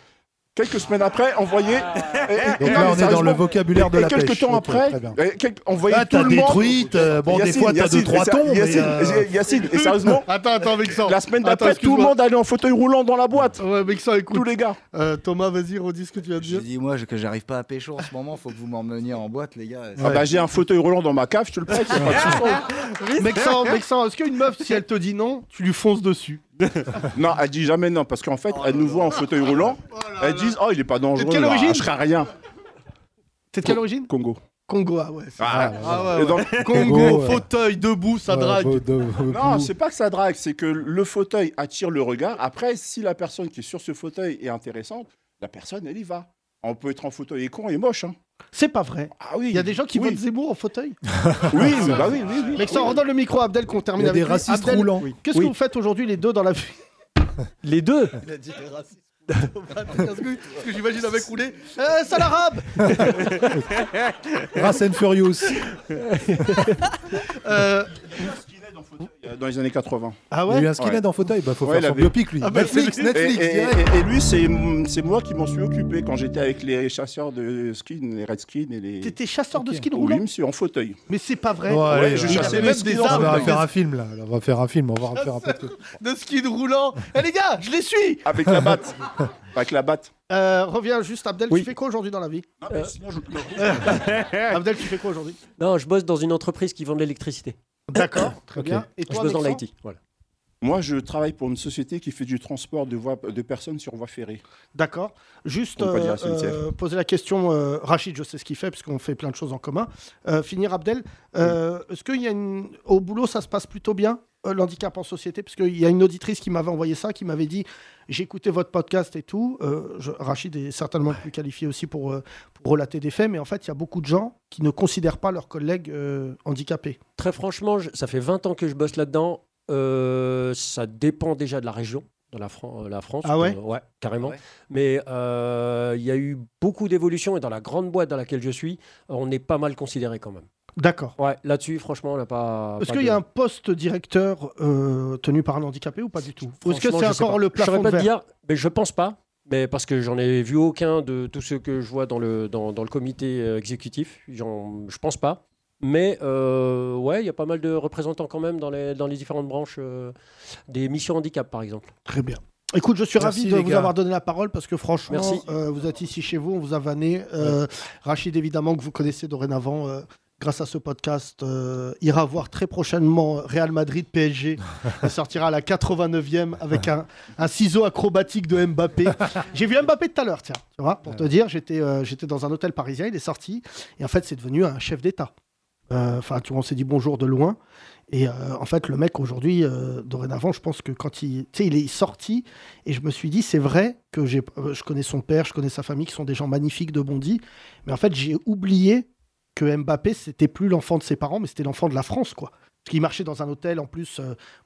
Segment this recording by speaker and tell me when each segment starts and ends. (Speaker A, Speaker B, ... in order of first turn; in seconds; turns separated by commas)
Speaker A: 0.5-10.3, Speaker B: 2.5-5.2, Speaker B: 5.9-9.3, Speaker C: 8.7-12.2, Speaker A: 11.0-13.6, Speaker C: 13.6-16.6, Speaker A: 14.3-14.8, Speaker D: 16.4-20.4, Speaker A: 20.0-22.7, Speaker C: 23.1-26.4, Speaker A: 27.1-32.3, Speaker C: 29.9-30.6, Speaker C: 31.1-31.9, Speaker C: 33.5-38.9, Speaker A: 33.7-34.4, Speaker A: 35.4-37.3, Speaker B: 35.5-36.1, Speaker B: 36.7-37.5, Speaker B: 38.3-39.7, Speaker A: 39.3-48.1, Speaker C: 48.5-51.0, Speaker A: 49.2-50.2, Speaker A: 51.5-53.0, Speaker C: 51.5-52.0, Speaker C: 52.5-56.8, Speaker B: 54.0-55.1, Speaker E: 55.0-55.5, Speaker E: 57.6-58.2, Speaker C: 58.4-58.7, Speaker C: 59.4-63.3, Speaker B: 64.5-65.7, Speaker C: 67.2-68.3, Speaker A: 68.2-70.2, Speaker C: 70.3-70.7, Speaker B: 70.5-73.8, Speaker A: 71.6-72.2, Speaker C: 72.4-73.7, Speaker A: 73.1-79.2, Speaker C: 79.0-80.2, Speaker B: 79.5-79.8, Speaker A: 79.9-81.0, Speaker C: 81.1-83.6, Speaker B: 81.7-85.9, Speaker A: 81.9-83.6, Speaker C: 85.2-88.5, Speaker A: 88.2-90.1, Speaker C: 90.3-92.5, Speaker A: 92.6-93.8, Speaker E: 92.7-93.0, Speaker C: 93.5-95.4, Speaker E: 93.9-94.5, Speaker E: 95.6-100.0, Speaker C: 97.9-99.6, Speaker B: 98.5-98.8, Speaker A: 100.6-104.4, Speaker C: 104.7-127.0, Speaker A: 105.8-106.6, Speaker E: 127.2-140.4, Speaker C: 133.2-133.6, Speaker C: 140.8-141.1, Speaker E: 141.2-143.2, Speaker C: 142.8-148.1, Speaker E: 146.6-160.1, Speaker E: 160.7-161.9, Speaker C: 162.1-185.3, Speaker B: 163.2-163.9, Speaker E: 165.1-165.4, Speaker C: 185.9-187.6, Speaker C: 188.1-204.3